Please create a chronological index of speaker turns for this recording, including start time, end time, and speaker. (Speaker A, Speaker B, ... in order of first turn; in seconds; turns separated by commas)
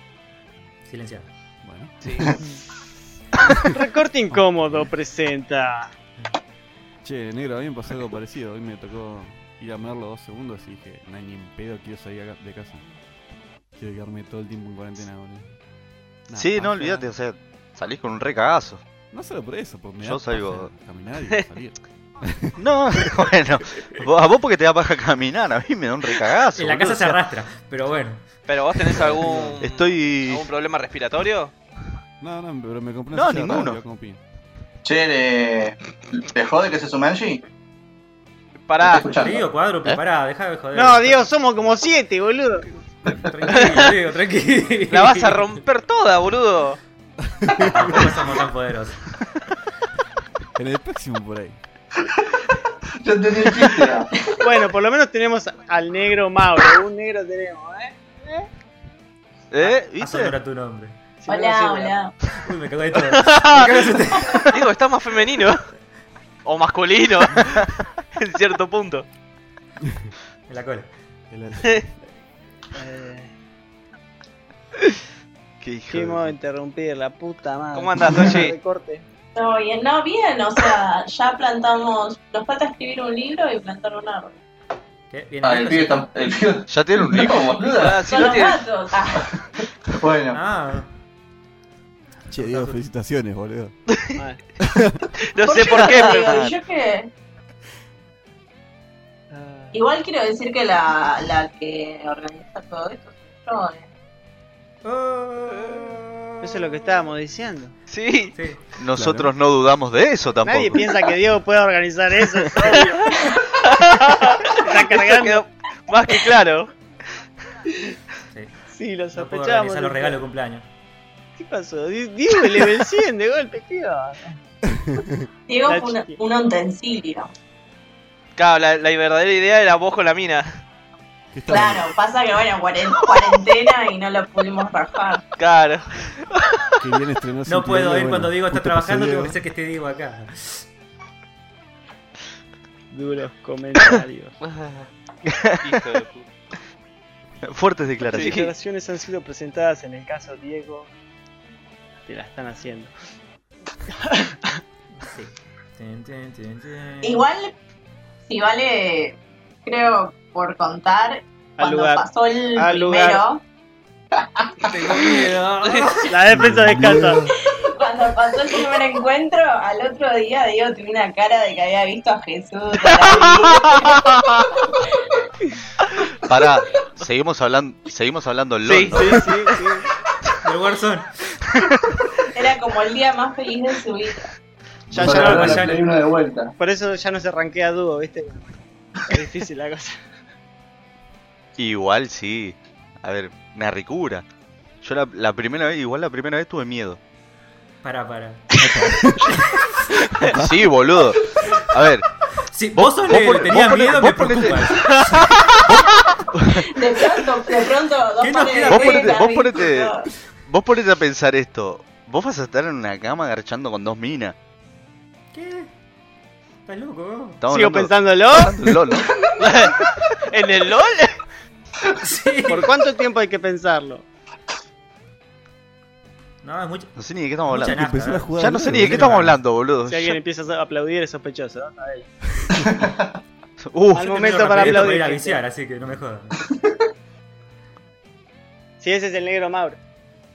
Speaker A: 0.8-1.3, Speaker B: 1.6-1.9, Speaker C: 2.0-2.3, Speaker D: 3.6-5.9, Speaker B: 7.0-12.9, Speaker B: 13.7-15.5, Speaker B: 16.3-17.1, Speaker E: 16.4-18.8, Speaker B: 19.1-23.1, Speaker E: 20.0-20.7, Speaker E: 22.6-27.2, Speaker A: 26.6-28.2, Speaker C: 28.5-31.5, Speaker B: 29.0-29.6, Speaker E: 29.1-30.5, Speaker B: 32.2-34.2, Speaker E: 33.1-33.8, Speaker F: 34.8-37.4, Speaker C: 38.7-39.1, Speaker F: 38.8-39.5, Speaker A: 39.0-41.3, Speaker D: 40.7-42.6, Speaker A: 43.1-45.6, Speaker C: 43.5-43.9, Speaker C: 44.9-46.8, Speaker B: 47.4-48.1, Speaker A: 47.6-49.0, Speaker B: 50.5-51.6, Speaker F: 53.0-54.1, Speaker D: 54.4-58.5, Speaker E: 59.5-60.4, Speaker A: 59.6-60.9, Speaker D: 61.2-62.0, Speaker G: 61.3-62.1, Speaker A: 62.4-64.4, Speaker C: 63.1-63.8, Speaker C: 64.5-65.7, Speaker C: 66.4-67.6, Speaker C: 68.1-69.0, Speaker B: 69.8-70.1, Speaker A: 70.5-70.9, Speaker B: 71.3-71.9, Speaker D: 72.7-73.3, Speaker E: 75.6-76.3, Speaker D: 75.9-79.0, Speaker C: 77.7-78.5, Speaker G: 79.3-84.4, Speaker A: 85.1-86.3, Speaker F: 85.4-88.0, Speaker E: 86.7-87.5, Speaker C: 87.7-88.6, Speaker G: 88.0-89.3, Speaker F: 89.9-90.4, Speaker A: 90.3-90.9, Speaker A: 92.3-92.8, Speaker B: 92.3-93.7, Speaker B: 94.6-95.1, Speaker C: 95.3-96.5, Speaker G: 95.4-97.1, Speaker E: 96.1-96.5, Speaker D: 99.3-99.8, Speaker G: 99.7-103.9, Speaker A: 104.8-107.0, Speaker D: 106.4-107.7, Speaker C: 107.9-108.3, Speaker A: 108.3-108.6, Speaker E: 108.8-110.9, Speaker B: 108.9-109.3, Speaker D: 110.4-113.3, Speaker C: 113.6-116.7, Speaker D: 114.0-115.4, Speaker D: 118.7-120.2, Speaker A: 119.1-120.7, Speaker D: 121.4-124.4, Speaker B: 124.6-125.3, Speaker G: 125.5-127.3, Speaker D: 125.6-126.2, Speaker C: 128.4-130.6, Speaker B: 131.3-131.9, Speaker G: 131.5-135.2, Speaker C: 135.4-136.1, Speaker B: 136.8-139.4, Speaker A: 137.5-140.7, Speaker D: 142.9-144.4, Speaker C: 144.4-144.9, Speaker E: 145.2-145.8, Speaker C: 145.6-146.2, Speaker E: 147.4-148.5, Speaker C: 148.1-148.5, Speaker D: 148.1-150.9, Speaker D: 152.1-152.9, Speaker D: 153.9-154.6, Speaker A: 154.9-157.3, Speaker G: 157.0-157.5, Speaker G: 158.3-163.4, Speaker D: 161.6-162.0, Speaker D: 162.6-163.2, Speaker C: 164.7-166.0, Speaker A: 165.0-166.1, Speaker D: 166.0-167.2, Speaker B: 166.3-167.3, Speaker G: 167.5-174.0, Speaker C: 173.0-174.0, Speaker E: 176.3-179.3, Speaker C: 178.6-179.5, Speaker D: 178.9-179.9, Speaker A: 180.4-181.1, Speaker G: 182.3-184.3, Speaker F: 184.9-186.5, Speaker D: 184.9-185.8, Speaker A: 184.9-185.8, Speaker D: 186.6-188.5, Speaker D: 189.1-189.9, Speaker E: 191.6-194.2, Speaker E: 194.8-197.0, Speaker A: 197.8-198.5, Speaker B: 198.6-199.4, Speaker A: 199.2-199.8, Speaker E: 200.3-202.1, Speaker B: 200.3-200.6, Speaker A: 202.4-204.9, Speaker E: 202.7-205.1, Speaker E: 205.7-206.6, Speaker G: 206.6-210.1, Speaker A: 208.2-209.2, Speaker E: 208.7-209.9, Speaker E: 210.4-214.3, Speaker A: 215.3-215.7, Speaker A: 216.7-217.4, Speaker E: 217.4-219.1, Speaker D: 217.5-218.6, Speaker C: 219.4-221.2, Speaker A: 222.0-222.7, Speaker D: 222.5-224.0, Speaker A: 226.4-229.4, Speaker E: 227.0-227.8, Speaker B: 227.5-229.2, Speaker E: 228.3-230.2, Speaker D: 229.9-232.1, Speaker F: 232.6-233.1, Speaker E: 233.6-235.0, Speaker D: 233.9-235.4, Speaker A: 234.0-236.4, Speaker D: 238.8-239.8